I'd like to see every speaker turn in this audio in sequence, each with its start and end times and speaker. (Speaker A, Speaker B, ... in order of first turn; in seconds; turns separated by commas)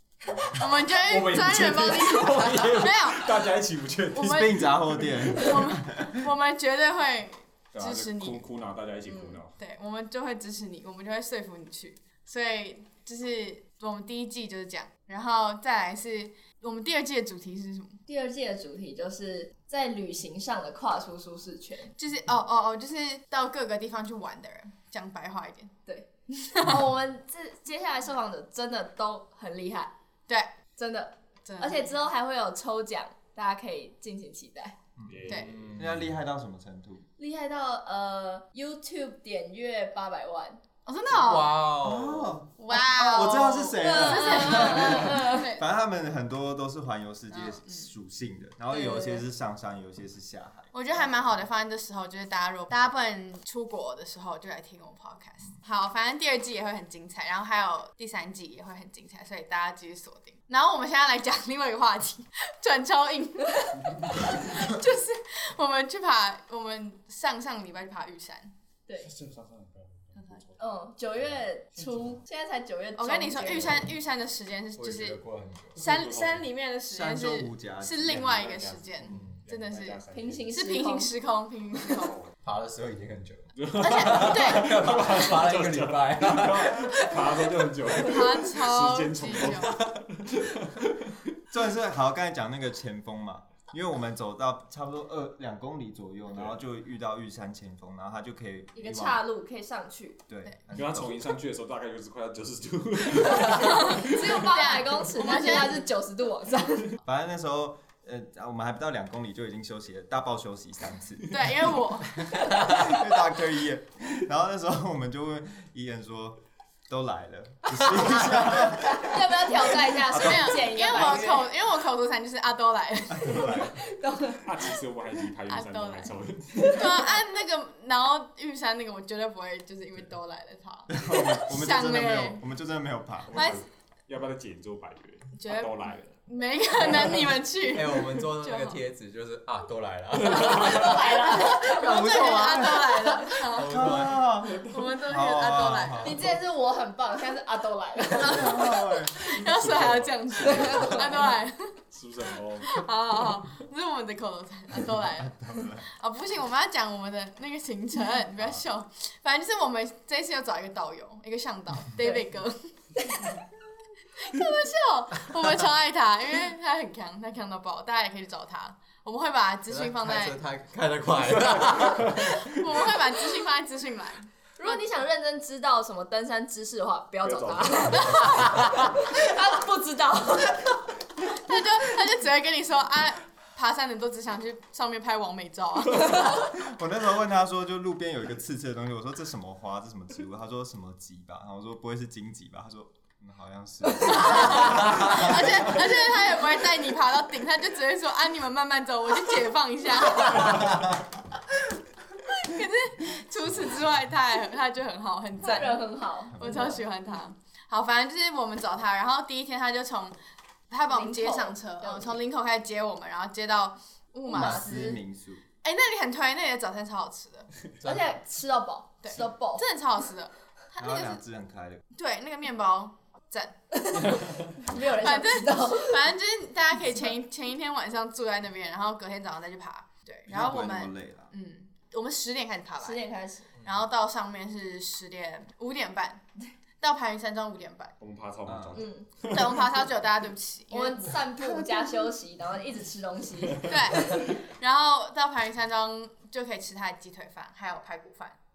Speaker A: 0.3-5.5, Speaker B: 0.5-3.5, Speaker B: 4.1-4.6, Speaker C: 4.2-6.3, Speaker B: 5.3-8.4, Speaker A: 7.7-9.5, Speaker D: 9.1-9.4, Speaker B: 9.6-18.0, Speaker D: 18.1-21.9, Speaker B: 22.0-25.7, Speaker D: 25.9-29.9, Speaker B: 26.3-26.8, Speaker B: 30.3-30.5, Speaker D: 30.8-34.8, Speaker B: 31.4-32.0, Speaker C: 35.0-37.1, Speaker A: 35.1-36.0, Speaker B: 35.3-35.5, Speaker E: 35.3-36.1, Speaker D: 37.2-40.6, Speaker B: 40.9-41.6, Speaker E: 41.1-42.4, Speaker C: 41.8-50.7, Speaker B: 42.6-45.6, Speaker D: 43.8-45.5, Speaker B: 47.3-47.9, Speaker D: 48.7-49.2, Speaker B: 50.7-68.5, Speaker A: 63.9-64.3, Speaker A: 69.0-70.6, Speaker B: 70.2-70.4, Speaker D: 70.6-73.8, Speaker A: 71.8-72.2, Speaker B: 73.0-75.2, Speaker E: 74.8-75.8, Speaker B: 75.8-82.2, Speaker A: 75.8-76.5, Speaker C: 76.9-78.4, Speaker A: 78.1-80.5, Speaker E: 79.0-79.4, Speaker D: 80.1-81.1, Speaker A: 81.9-82.3, Speaker E: 82.4-88.0, Speaker A: 83.6-91.1, Speaker B: 83.8-84.8, Speaker B: 88.0-89.8, Speaker E: 89.6-89.9, Speaker C: 91.5-99.2, Speaker A: 96.3-96.6, Speaker D: 98.8-100.2, Speaker C: 100.3-101.4, Speaker A: 100.7-104.4, Speaker B: 103.4-105.9, Speaker D: 103.5-107.0, Speaker C: 107.0-111.3, Speaker B: 111.3-112.7, Speaker C: 112.4-121.2, Speaker D: 118.3-121.5, Speaker B: 120.1-123.6, Speaker C: 123.1-123.8, Speaker D: 123.3-124.7, Speaker A: 124.4-126.8, Speaker B: 125.5-132.4, Speaker D: 126.6-126.9, Speaker C: 130.9-133.5, Speaker A: 133.3-136.2, Speaker B: 133.3-133.6, Speaker B: 135.4-138.8, Speaker A: 137.0-137.3, Speaker E: 137.7-144.3, Speaker D: 140.2-142.6, Speaker A: 140.4-140.9, Speaker B: 141.3-146.2, Speaker C: 142.4-142.9, Speaker C: 143.7-146.4, Speaker D: 146.0-148.6, Speaker B: 148.1-151.8, Speaker C: 148.2-149.2, Speaker A: 149.3-151.2, Speaker D: 150.5-151.3, Speaker A: 151.9-152.8, Speaker B: 152.6-162.7, Speaker C: 155.2-155.9, Speaker B: 164.2-170.4, Speaker E: 169.7-172.3, Speaker A: 171.7-172.2, Speaker B: 172.1-174.8, Speaker D: 174.6-180.8, Speaker A: 177.2-178.8, Speaker B: 177.9-178.5, Speaker B: 181.3-186.5, Speaker C: 186.4-195.7, Speaker B: 194.0-200.9, Speaker B: 202.4-210.2, Speaker D: 205.4-206.8, Speaker C: 206.3-206.8, Speaker B: 210.7-215.0, Speaker D: 210.9-212.1, Speaker C: 214.3-215.4, Speaker D: 214.3-214.9, Speaker B: 215.6-217.5, Speaker E: 217.8-218.1, Speaker D: 217.8-219.7, Speaker B: 219.0-221.2, Speaker C: 220.8-221.8, Speaker B: 221.9-224.2, Speaker D: 223.9-226.1, Speaker B: 224.8-233.0, Speaker C: 230.3-231.3, Speaker D: 232.8-233.6, Speaker B: 233.6-236.2, Speaker B: 236.8-237.9, Speaker A: 238.0-239.7, Speaker C: 238.5-238.9, Speaker D: 238.7-239.3, Speaker B: 239.2-242.1, Speaker D: 240.7-244.4, Speaker B: 243.6-248.4